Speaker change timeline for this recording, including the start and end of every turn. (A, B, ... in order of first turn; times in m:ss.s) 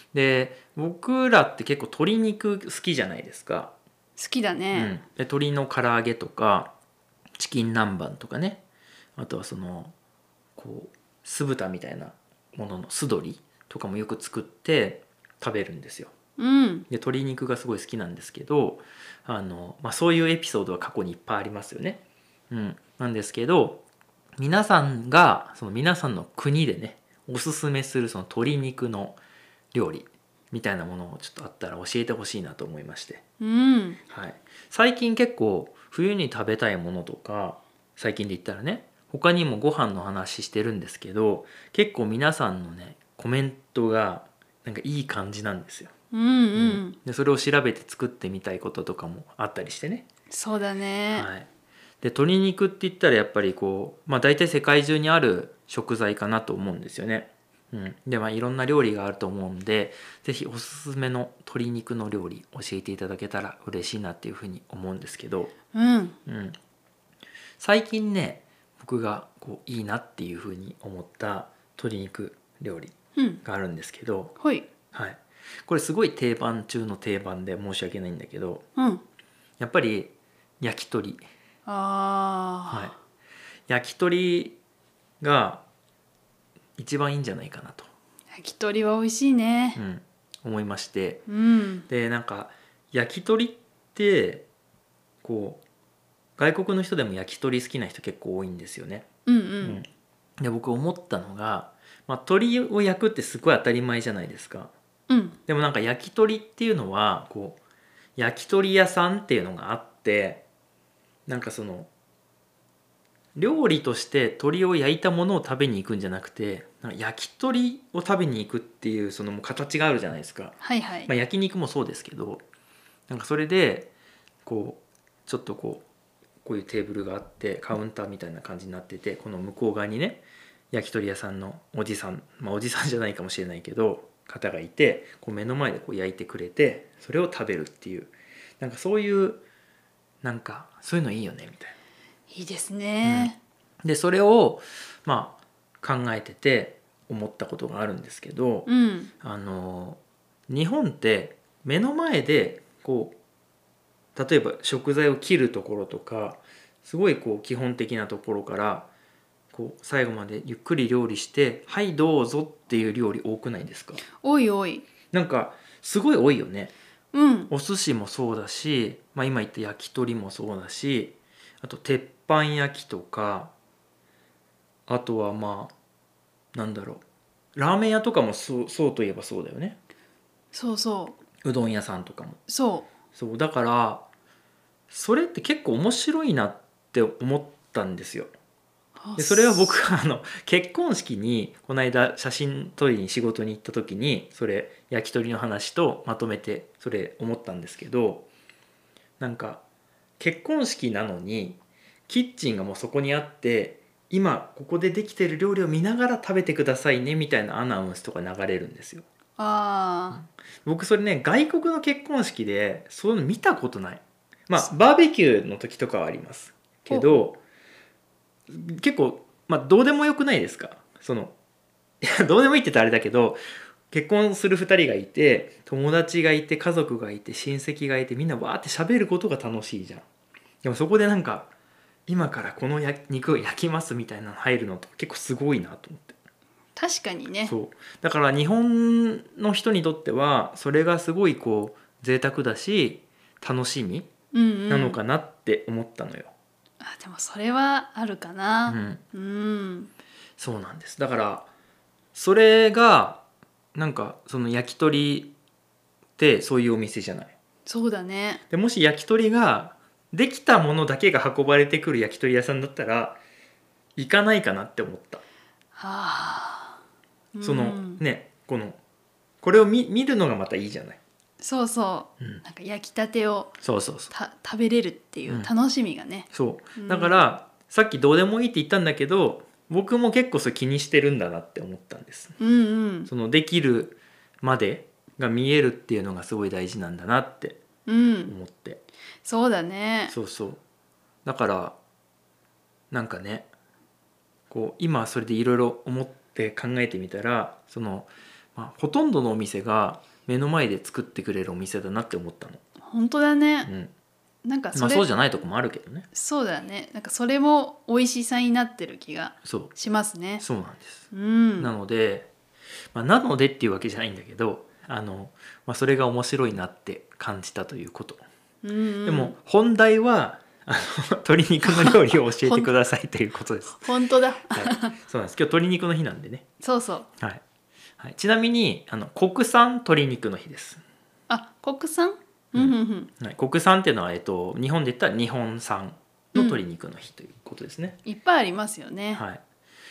0:00.1-0:03.7 A
0:04.2-0:04.9 B
0:04.7-0:06.7 A
0:07.4-0:08.6 A
0:09.2-0:09.9 A
0:10.6-0:16.1 A
0:16.4-0:16.8 B
0:16.9-0:23.8 A
0:24.4-0:29.2 A
0:29.7-0:33.2 A
0:33.4-0:34.0 B
0:34.1-0:45.9 A
0:46.1-0:47.0 B
0:46.5-0:50.0 A
0:50.3-0:51.3 B
0:51.1-0:51.5 A
0:52.0-1:05.5 A
1:05.7-1:06.2 B
1:06.2-1:06.6 A
1:07.6-1:14.3 A
1:13.2-1:13.4 B
1:14.4-1:14.7 B
1:14.9-1:18.6 A
1:18.8-1:19.0 B
1:19.6-1:21.2 A
1:21.6-1:22.9 B
1:23.7-1:24.6 A
1:25.2-1:25.6 A
1:26.8-1:27.9 A
1:28.3-1:29.8 B
1:29.8-1:31.2 A
1:31.3-1:31.8 B
1:31.9-1:34.4 A
1:35.2-1:35.6 A
1:36.4-1:39.1 A
1:39.2-1:39.8 B
1:39.6-1:39.9 A
1:40.4-1:44.7 A
1:45.1-1:45.4 B
1:45.5-1:47.6 A
1:48.2-1:50.4 A
1:51.3-1:51.9 A
1:53.4-2:02.4 A
2:00.6-2:01.1 B
2:03.1-2:03.9 A
2:04.4-2:05.8 A
2:06.4-2:19.4 A
2:20.2-2:21.7 A
2:22.3-2:23.4 B
2:23.0-2:23.3 A
2:23.8-2:28.7 A
2:28.7-2:29.1 B
2:29.2-2:33.2 A
2:34.2-2:38.9 A
2:39.5-2:44.0 A
2:44.2-2:44.8 B
2:45.1-2:46.7 A
2:47.1-2:47.5 B
2:47.5-2:53.5 A
2:54.9-2:55.7 A
2:56.5-2:57.0 A
2:57.5-2:59.8 A
3:00.5-3:01.2 B
3:01.4-3:02.4 A
3:02.5-3:02.9 B
3:03.1-3:04.0 A
3:04.9-3:08.3 A
3:09.0-3:09.8 B
3:09.2-3:18.3 A
3:19.2-3:19.6 A
3:20.2-3:29.0 A
3:29.4-3:30.2 B
3:30.1-3:37.4 A
3:36.9-3:37.2 B
3:38.5-3:41.3 A
3:42.0-3:50.0 A
3:50.6-3:51.5 A
3:52.1-3:56.2 A
3:56.8-3:57.5 B
3:57.4-4:04.1 A
4:04.3-4:05.0 B
4:04.7-4:06.3 A
4:06.8-4:09.9 B
4:08.7-4:09.0 A
4:10.4-4:11.5 A
4:12.1-4:13.2 A
4:13.7-4:15.3 A
4:16.2-4:17.3 A
4:17.6-4:18.4 B
4:18.5-4:23.2 A
4:24.0-4:25.2 A
4:25.8-4:26.8 B
4:27.3-4:28.0 B
4:27.4-4:28.8 A
4:29.4-4:31.0 A
4:31.4-4:33.5 B
4:33.6-4:34.1 A
4:34.1-4:37.2 B
4:35.3-4:35.5 A
4:36.3-4:42.4 A
4:42.4-4:43.1 B
4:43.1-4:47.6 A
4:47.9-4:48.3 B
4:48.3-4:48.8 A
4:49.2-4:50.1 B
4:50.1-4:50.6 A
4:51.2-4:51.8 A
4:52.9-4:53.5 A
4:54.5-5:02.6 A
5:02.8-5:03.7 B
5:03.6-5:03.9 A
5:04.4-5:05.1 B
5:04.7-5:06.1 A
5:06.1-5:10.4 B
5:09.4-5:09.7 A
5:10.4-5:11.0 A
5:11.1-5:11.7 B
5:11.6-5:12.3 A
5:12.9-5:18.2 A
5:18.6-5:19.3 B
5:19.0-5:23.9 A
5:21.6-5:22.7 B
5:23.8-5:24.9 B
5:24.5-5:26.4 A
5:26.6-5:27.1 B
5:28.0-5:30.8 A
5:31.3-5:33.1 B
5:32.5-5:38.0 A
5:36.3-5:36.6 B
5:38.0-5:39.2 B
5:39.1-5:39.4 A